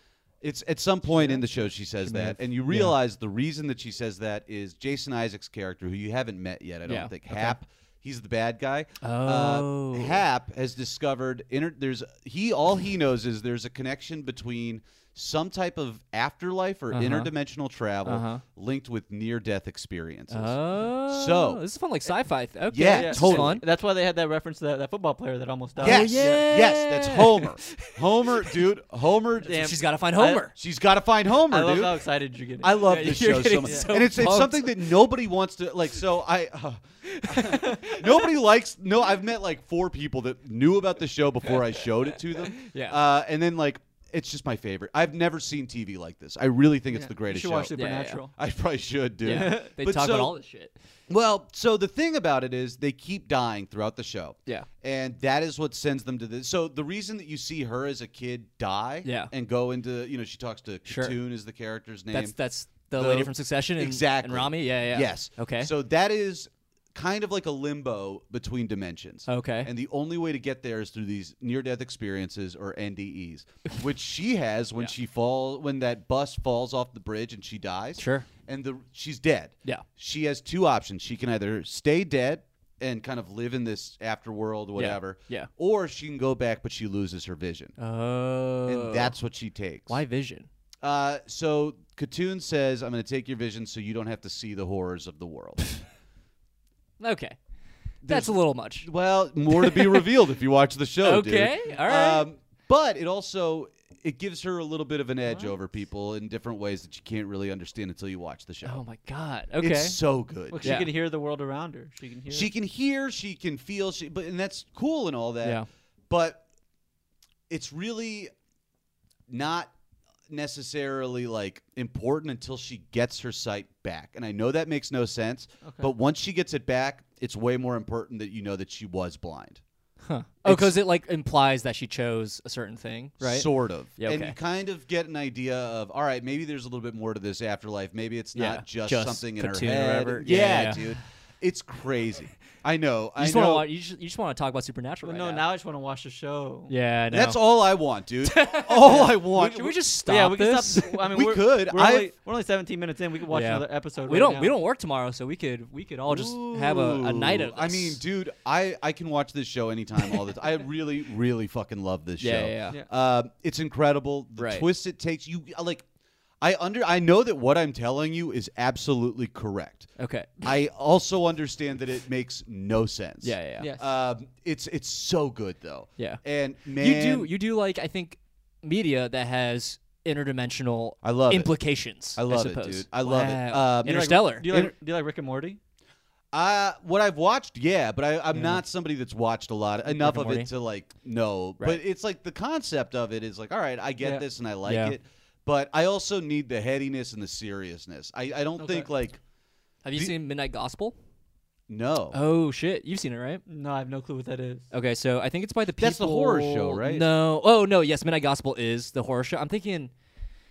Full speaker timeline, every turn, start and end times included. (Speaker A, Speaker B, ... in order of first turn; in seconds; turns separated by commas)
Speaker A: 0.4-21.6, Speaker B: 2.0-3.0, Speaker B: 6.9-7.6, Speaker B: 9.0-10.2, Speaker B: 16.9-17.3, Speaker B: 18.1-18.4, Speaker B: 20.3-23.6, Speaker A: 22.7-23.6, Speaker C: 22.9-26.5, Speaker B: 25.8-28.6, Speaker A: 25.8-29.7, Speaker C: 29.4-30.5, Speaker B: 29.5-30.5, Speaker A: 30.6-32.0, Speaker C: 31.5-32.9, Speaker A: 32.6-47.8, Speaker B: 32.7-35.0, Speaker B: 37.1-38.3, Speaker B: 41.5-43.0, Speaker C: 46.9-48.3, Speaker B: 47.7-48.2, Speaker A: 48.4-50.4, Speaker B: 49.2-50.7, Speaker C: 49.3-49.7, Speaker A: 51.1-62.4, Speaker B: 59.0-59.3, Speaker B: 60.9-61.2, Speaker B: 62.1-65.7, Speaker A: 63.0-87.8, Speaker B: 69.3-69.7, Speaker B: 78.0-78.3, Speaker B: 84.8-85.5, Speaker B: 87.8-89.1, Speaker A: 88.7-90.0, Speaker B: 89.9-90.5, Speaker A: 90.8-95.7, Speaker B: 97.0-97.4, Speaker B: 98.0-98.9, Speaker A: 98.0-108.8, Speaker B: 99.5-100.1, Speaker B: 101.0-102.3, Speaker B: 108.6-110.0, Speaker A: 109.6-110.8, Speaker C: 110.5-112.5, Speaker B: 110.6-110.9, Speaker A: 112.3-116.4, Speaker A: 117.5-118.3, Speaker A: 119.3-119.7, Speaker A: 120.3-129.6, Speaker C: 125.7-125.9, Speaker B: 130.0-134.4, Speaker A: 130.4-130.8, Speaker A: 133.2-143.7, Speaker B: 138.3-141.0, Speaker B: 143.2-145.5, Speaker C: 145.0-146.7, Speaker B: 146.7-147.5, Speaker A: 147.1-149.8, Speaker B: 148.2-151.1, Speaker C: 148.8-154.5, Speaker A: 151.1-152.1, Speaker B: 153.3-158.0, Speaker A: 156.1-165.8, Speaker B: 162.2-162.8, Speaker B: 164.4-164.7, Speaker A: 166.4-169.9, Speaker B: 170.0-170.4, Speaker A: 170.4-177.3, Speaker B: 173.2-173.7, Speaker C: 173.6-173.9, Speaker B: 176.7-184.6, Speaker A: 181.0-181.5, Speaker A: 182.2-184.7, Speaker C: 183.8-185.6, Speaker A: 186.3-199.2, Speaker B: 188.3-188.6, Speaker B: 189.8-190.5, Speaker B: 194.6-195.0, Speaker C: 198.6-198.9, Speaker B: 199.8-201.0, Speaker A: 201.7-202.2, Speaker B: 202.1-203.4, Speaker C: 203.5-204.7, Speaker B: 204.7-209.9, Speaker A: 205.8-207.1